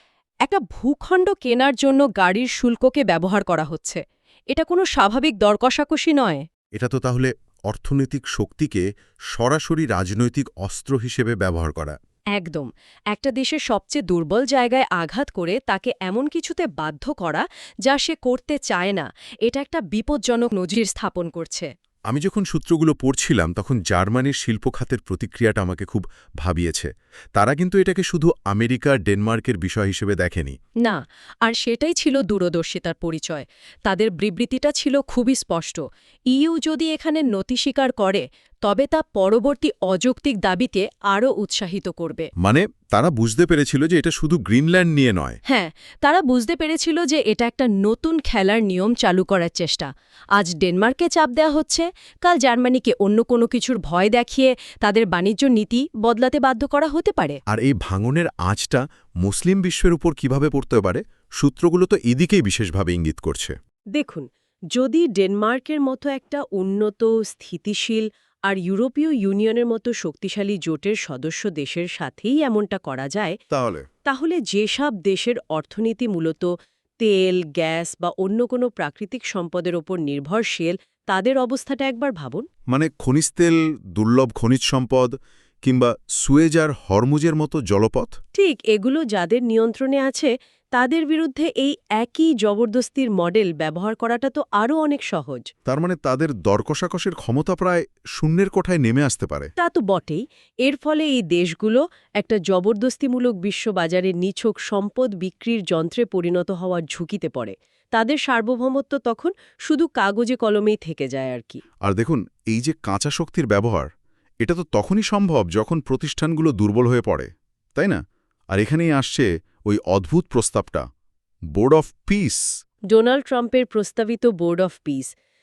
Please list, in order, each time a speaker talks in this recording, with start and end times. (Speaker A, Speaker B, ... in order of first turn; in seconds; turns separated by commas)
Speaker A: 0.4-6.4, Speaker B: 6.7-12.0, Speaker A: 12.3-21.7, Speaker B: 22.1-30.6, Speaker A: 30.8-42.3, Speaker B: 42.4-45.4, Speaker A: 45.5-57.4, Speaker B: 57.5-63.5, Speaker A: 63.9-73.4, Speaker B: 73.5-73.8, Speaker A: 74.0-82.5, Speaker B: 82.7-88.1, Speaker A: 88.3-95.5, Speaker B: 95.7-99.5, Speaker A: 99.6-111.6, Speaker B: 111.8-113.9, Speaker B: 114.4-118.0, Speaker B: 118.5-120.8, Speaker B: 121.5-122.5, Speaker A: 122.9-125.1